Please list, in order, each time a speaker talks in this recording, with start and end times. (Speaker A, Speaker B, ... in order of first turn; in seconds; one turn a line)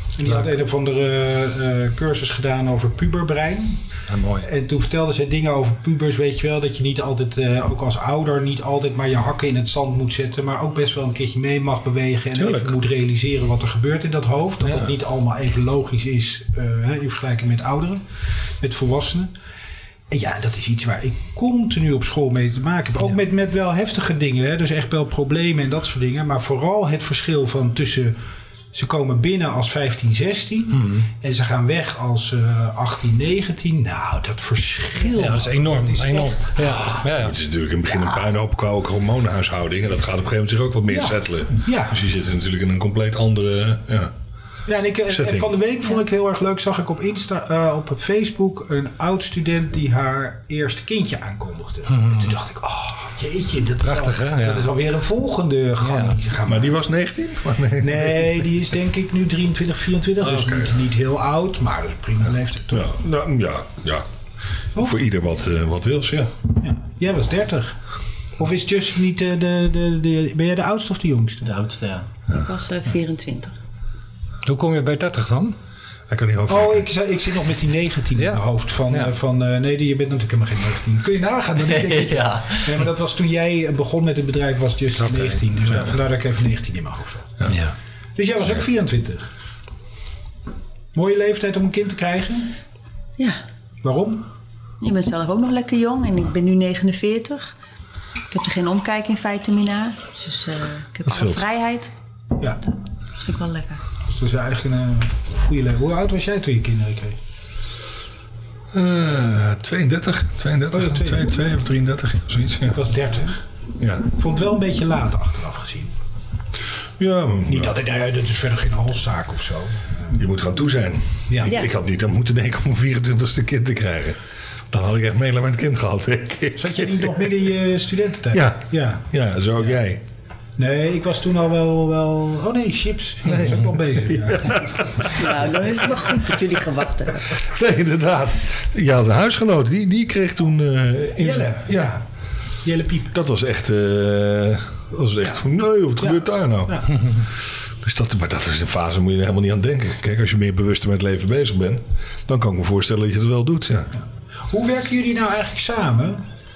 Speaker A: 0.1-3.8
Speaker B: 4.1-4.5
Speaker A: 4.4-18.1
Speaker B: 12.3-12.7
Speaker A: 18.6-19.3
Speaker A: 20.1-28.2
Speaker A: 28.7-37.0
Speaker B: 30.7-31.0
Speaker B: 35.1-37.4
Speaker C: 37.0-44.1
Speaker A: 40.9-42.0
Speaker A: 44.7-56.7
Speaker C: 45.1-45.5
Speaker B: 52.0-52.3
Speaker B: 53.8-54.7
Speaker B: 55.8-56.2
Speaker C: 56.4-58.3
Speaker A: 57.8-63.0
Speaker C: 60.2-60.7
Speaker C: 62.7-64.0
Speaker C: 64.8-66.3
Speaker A: 66.6-67.8
Speaker A: 68.4-71.5
Speaker D: 71.4-72.1
Speaker E: 72.3-73.5
Speaker B: 74.4-75.5
Speaker C: 76.1-76.8
Speaker A: 76.5-87.4
Speaker B: 78.2-79.1
Speaker D: 81.6-82.8
Speaker B: 85.0-85.9
Speaker B: 87.5-87.7
Speaker A: 88.2-89.3
Speaker A: 90.9-92.5
Speaker A: 93.8-94.2
Speaker E: 94.8-97.5
Speaker E: 98.3-101.9
Speaker C: 101.0-101.4
Speaker E: 103.2-103.8
Speaker A: 104.0-107.2
Speaker C: 108.7-112.8
Speaker A: 110.7-111.3
Speaker A: 112.7-113.4
Speaker C: 113.8-114.1
Speaker A: 114.1-115.9
Speaker C: 117.0-117.7
Speaker A: 117.5-120.2
Speaker C: 120.1-124.2
Speaker A: 121.3-121.6
Speaker C: 124.7-127.1
Speaker A: 126.5-129.0
Speaker C: 128.3-130.0
Speaker A: 130.6-134.8
Speaker C: 133.3-133.6
Speaker C: 134.2-135.2
Speaker E: 135.1-137.4
Speaker C: 137.3-141.9
Speaker A: 141.2-142.0
Speaker A: 142.6-143.1
Speaker C: 143.1-146.8
Speaker A: 146.0-146.9
Speaker C: 147.8-153.9
Speaker A: 154.5-156.2